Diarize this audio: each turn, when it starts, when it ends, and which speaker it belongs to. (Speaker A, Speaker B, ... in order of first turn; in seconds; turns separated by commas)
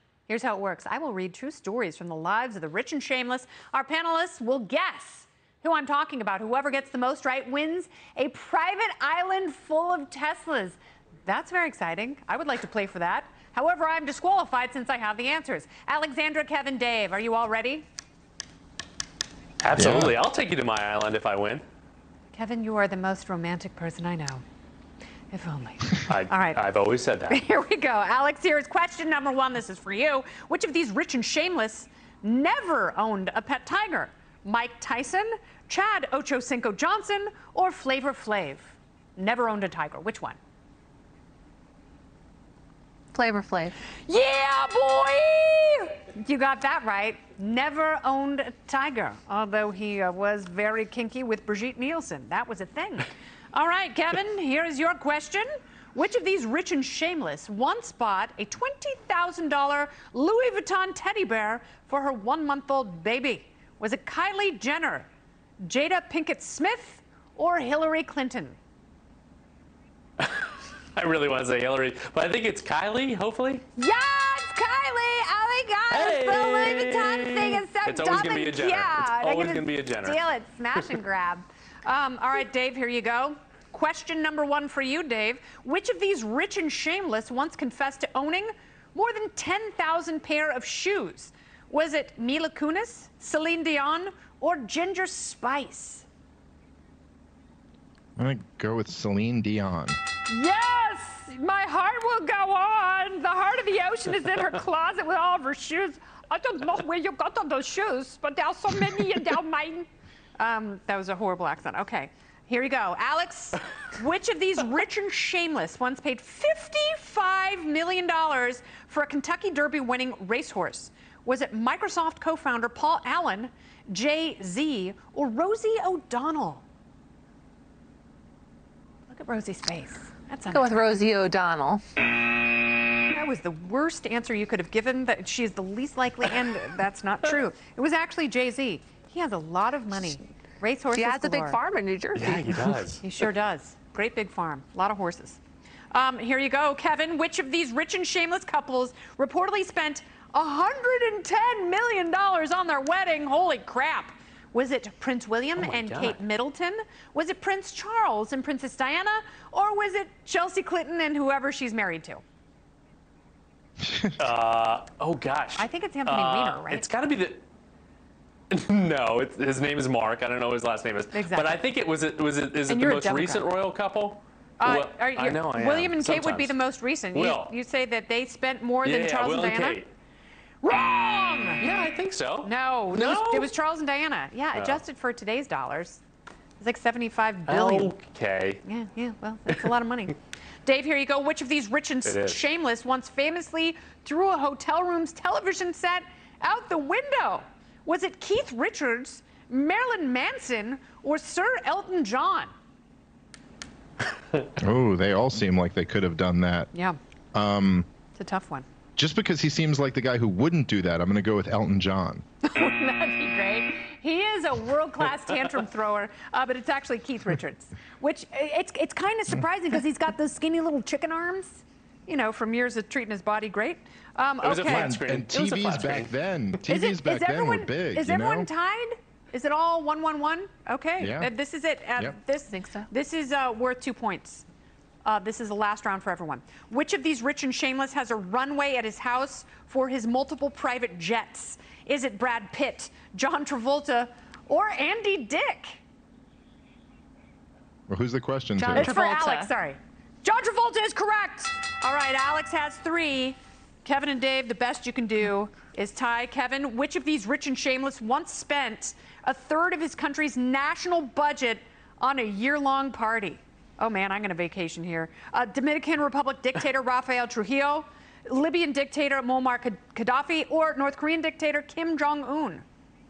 Speaker A: 0.3-17.8, Speaker B: 19.6-21.6, Speaker C: 19.7-20.1, Speaker A: 22.3-24.4, Speaker A: 25.3-26.6, Speaker B: 26.1-27.4, Speaker A: 27.3-40.4, Speaker D: 43.1-43.7, Speaker A: 44.1-65.1, Speaker A: 65.6-68.6, Speaker B: 70.2-73.6, Speaker A: 73.8-96.0, Speaker B: 75.9-80.2, Speaker C: 98.2-100.0, Speaker A: 100.3-109.9, Speaker A: 110.4-126.6, Speaker A: 129.1-131.0, Speaker D: 130.5-131.8, Speaker A: 133.1-141.6, Speaker D: 140.9-142.7, Speaker B: 142.1-143.0, Speaker A: 143.0-145.4, Speaker A: 145.9-162.2, Speaker B: 155.6-156.2, Speaker C: 163.8-164.1, Speaker B: 164.2-167.4, Speaker A: 165.6-166.9, Speaker B: 168.5-177.5, Speaker A: 171.1-171.6, Speaker A: 172.7-173.5, Speaker A: 174.6-179.8, Speaker B: 178.8-179.9, Speaker A: 180.6-181.6, Speaker B: 181.6-183.5, Speaker A: 182.4-186.0, Speaker B: 184.5-184.8, Speaker A: 186.6-187.9, Speaker B: 187.5-188.6, Speaker A: 188.6-202.5, Speaker B: 192.0-192.5, Speaker C: 204.6-206.7, Speaker A: 206.7-207.0, Speaker C: 207.3-207.9, Speaker A: 208.1-208.7, Speaker C: 209.0-212.2, Speaker A: 212.4-225.0, Speaker B: 224.4-226.1, Speaker C: 224.6-228.5, Speaker A: 226.7-234.4, Speaker C: 231.0-231.3, Speaker D: 232.5-232.8, Speaker A: 235.0-245.8, Speaker C: 247.9-248.9, Speaker A: 248.6-272.6, Speaker D: 248.7-249.5